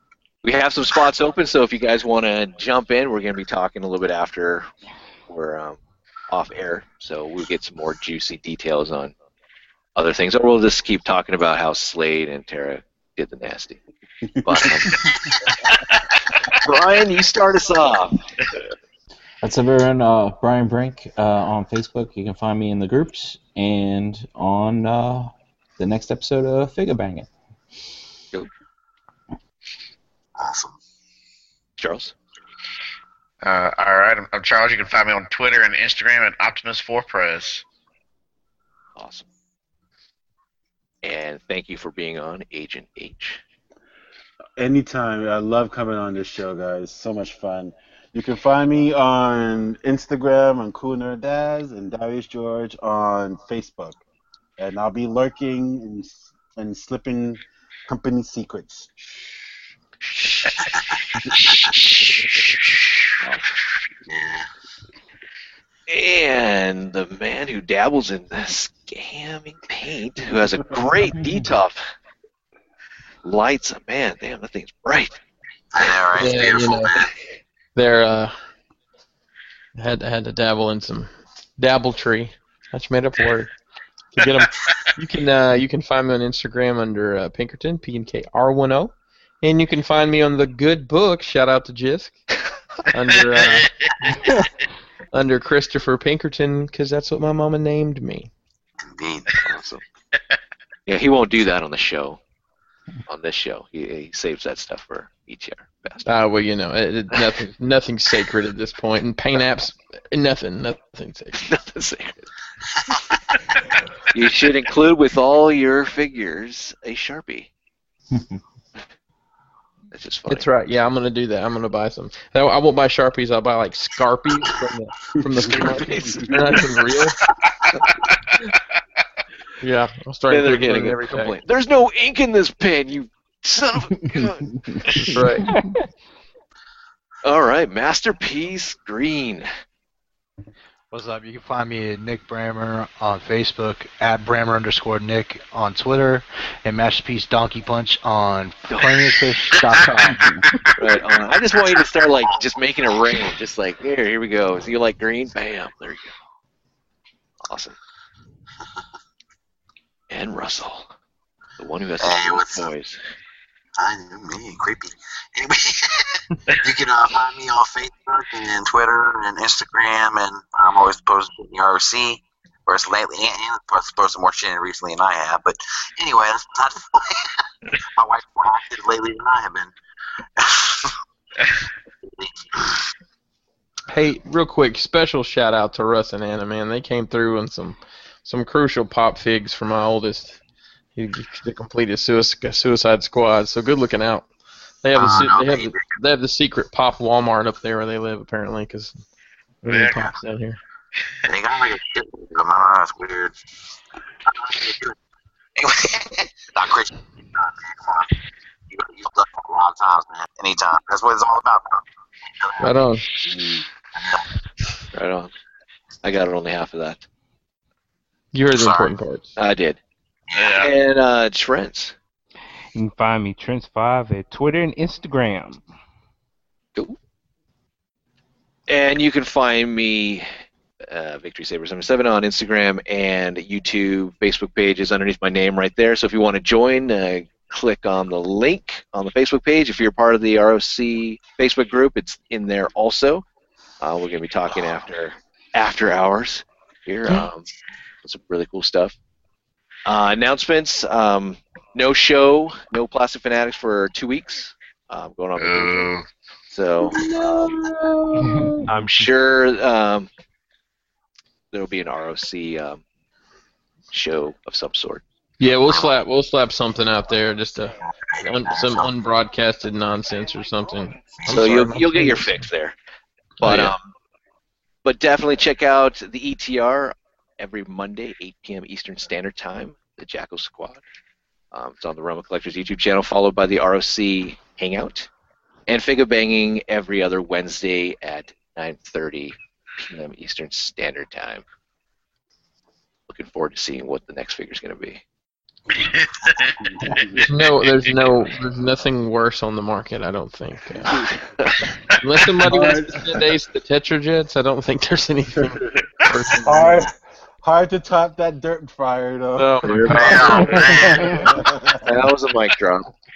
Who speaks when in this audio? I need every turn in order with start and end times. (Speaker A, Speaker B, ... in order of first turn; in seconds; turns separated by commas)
Speaker A: 0.4-4.7, Speaker A: 5.3-5.8, Speaker A: 6.3-9.1, Speaker A: 10.0-13.8, Speaker A: 14.4-15.0, Speaker B: 14.4-15.1, Speaker A: 16.6-18.2, Speaker C: 19.4-27.3, Speaker D: 30.4-30.8, Speaker A: 31.8-32.1, Speaker E: 33.4-37.6, Speaker A: 39.0-39.3, Speaker A: 41.0-43.4, Speaker B: 44.6-54.0, Speaker B: 54.6-58.9, Speaker A: 60.1-60.7, Speaker D: 60.7-62.0, Speaker A: 63.2-63.5, Speaker D: 64.1-64.5, Speaker A: 65.9-71.8, Speaker A: 73.2-75.2, Speaker D: 75.7-77.1, Speaker F: 76.2-76.9, Speaker F: 77.8-78.3, Speaker F: 79.8-83.5, Speaker F: 84.1-92.2, Speaker F: 92.9-93.7, Speaker E: 93.4-94.1, Speaker F: 95.1-98.3, Speaker D: 98.8-99.3, Speaker A: 99.5-99.8, Speaker A: 100.9-102.2, Speaker A: 103.1-106.1, Speaker F: 106.0-111.5, Speaker A: 107.1-107.5, Speaker A: 111.4-112.3, Speaker A: 114.1-117.5, Speaker C: 118.1-118.4, Speaker A: 119.9-120.5, Speaker F: 120.3-127.2, Speaker B: 125.3-125.6, Speaker A: 125.5-126.6, Speaker F: 129.6-131.4, Speaker A: 130.3-135.1, Speaker F: 135.0-135.5, Speaker G: 135.5-135.8, Speaker A: 137.2-139.5, Speaker H: 140.9-150.3, Speaker A: 148.7-149.1, Speaker E: 149.7-150.1, Speaker A: 150.8-156.1, Speaker A: 157.5-157.8, Speaker A: 160.1-160.9, Speaker A: 161.6-163.0, Speaker D: 162.0-162.7, Speaker D: 163.8-177.3, Speaker D: 178.0-179.7, Speaker D: 180.4-180.9, Speaker F: 183.9-190.4, Speaker F: 190.9-194.3, Speaker F: 194.8-199.0, Speaker D: 195.0-195.9, Speaker F: 199.6-200.6, Speaker E: 199.7-200.1, Speaker D: 201.3-203.3, Speaker D: 204.3-204.9, Speaker D: 205.6-208.1, Speaker D: 208.7-211.8, Speaker D: 212.4-212.7, Speaker F: 212.6-213.0, Speaker B: 213.2-213.6, Speaker A: 214.9-215.3, Speaker A: 216.0-217.1, Speaker F: 218.3-219.3, Speaker D: 218.6-219.0, Speaker A: 219.4-219.8, Speaker E: 220.3-220.7, Speaker A: 220.6-221.9, Speaker G: 222.7-225.7, Speaker A: 228.7-230.3, Speaker A: 230.9-243.2, Speaker A: 243.8-247.5, Speaker A: 248.0-249.0, Speaker A: 249.9-255.9, Speaker E: 255.4-256.1, Speaker A: 256.5-257.6, Speaker G: 258.1-258.7, Speaker A: 258.2-260.1, Speaker A: 261.5-262.8, Speaker A: 263.9-265.0, Speaker F: 265.4-272.5, Speaker D: 265.7-266.0, Speaker D: 267.8-268.9, Speaker D: 271.2-271.5, Speaker A: 271.3-272.8, Speaker A: 273.4-273.9, Speaker F: 273.4-273.7, Speaker A: 274.9-280.8, Speaker A: 281.5-285.1, Speaker A: 285.7-291.4, Speaker A: 293.1-295.0, Speaker B: 296.6-297.2, Speaker F: 297.2-301.0, Speaker F: 302.0-306.9, Speaker B: 302.4-303.2, Speaker B: 306.4-306.9, Speaker B: 307.4-312.0, Speaker F: 309.4-311.1, Speaker A: 309.6-311.1, Speaker E: 309.9-311.2, Speaker G: 310.8-311.3, Speaker A: 311.8-312.9